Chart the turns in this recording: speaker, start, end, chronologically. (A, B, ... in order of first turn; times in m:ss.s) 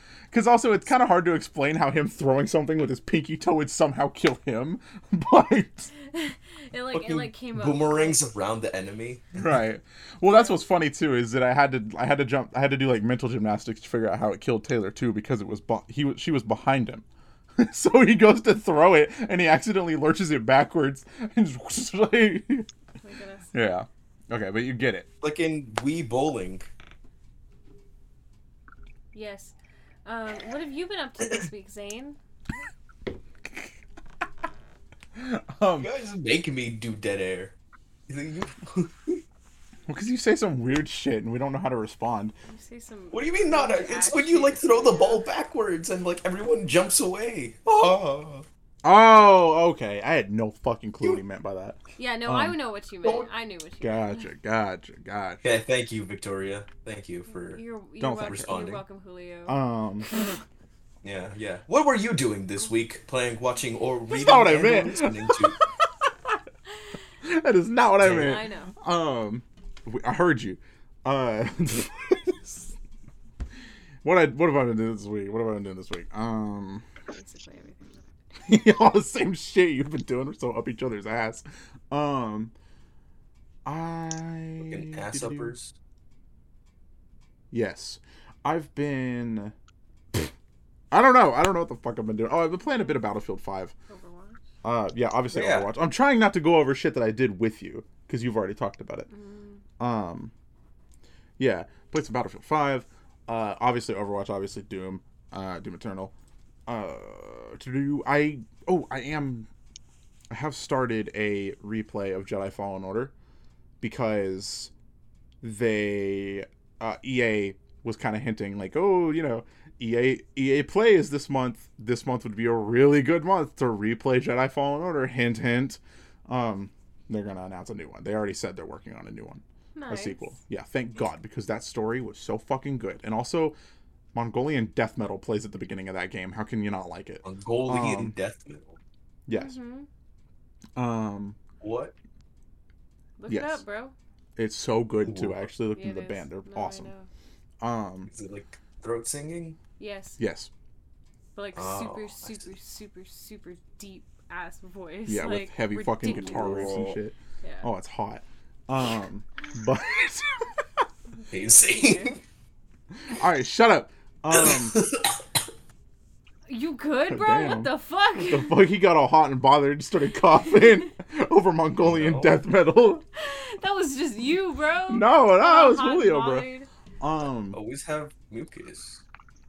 0:00.3-0:05.9 A
0:06.0-0:08.3 B
0:06.9-0:09.4 C
0:09.4-0:17.0 A
0:10.3-0:10.6 B
0:17.6-0:22.7 A
0:23.0-0:23.5 B
0:23.5-0:25.1 A
0:25.2-0:26.7 C
0:29.1-0:32.2 B
0:35.2-0:35.9 A
0:35.8-0:37.6 C
0:38.1-0:39.2 C
0:39.9-0:42.4 A
0:42.5-0:45.2 B
0:43.1-0:48.5 C
0:48.8-0:52.6 A
0:52.0-0:54.3 B
0:53.0-0:53.3 C
0:53.8-0:55.4 A
0:55.4-0:57.6 C
0:57.3-0:59.6 B
0:58.0-0:58.6 A
0:58.2-0:58.8 C
0:59.5-1:00.1 A
1:01.0-1:05.6 C
1:04.1-1:06.1 A
1:07.2-1:12.7 A
1:08.0-1:08.4 C
1:08.0-1:08.7 B
1:14.0-1:16.8 A
1:17.1-1:18.1 B
1:18.5-1:22.5 A
1:23.6-1:25.5 A
1:24.6-1:25.7 C
1:27.5-1:29.5 A
1:30.9-1:33.7 A
1:32.7-1:33.0 B
1:33.9-1:34.4 B
1:34.6-1:39.1 A
1:35.3-1:35.7 C
1:39.1-1:39.6 B
1:39.8-1:40.3 A
1:41.4-1:46.1 A
1:46.7-1:49.5 A
1:50.3-1:53.1 A
1:53.8-1:54.7 A
1:55.4-2:13.6 A
2:09.8-2:10.3 B
2:14.1-2:18.1 A
2:17.2-2:18.8 C
2:19.3-2:19.6 A
2:19.3-2:19.9 B
2:20.8-2:21.4 A
2:21.6-2:21.9 C
2:23.2-2:23.9 B
2:23.3-2:23.6 A
2:24.4-2:26.9 A
2:25.0-2:25.4 C
2:25.8-2:27.1 B
2:27.6-2:28.1 A
2:28.1-2:29.6 C
2:29.8-2:30.2 B
2:30.2-2:30.5 A
2:31.4-2:36.8 B
2:31.6-2:32.5 C
2:35.1-2:40.8 A
2:36.0-2:37.0 C
2:37.4-2:37.7 B
2:41.2-2:42.2 B
2:41.3-2:42.2 C
2:43.1-2:44.8 A
2:44.3-2:45.2 C
2:46.5-2:48.6 B
2:47.1-2:53.0 A
2:51.8-2:52.4 C
2:53.2-2:56.7 B
2:54.9-2:56.5 A
2:57.0-2:57.6 A
2:57.5-2:59.0 C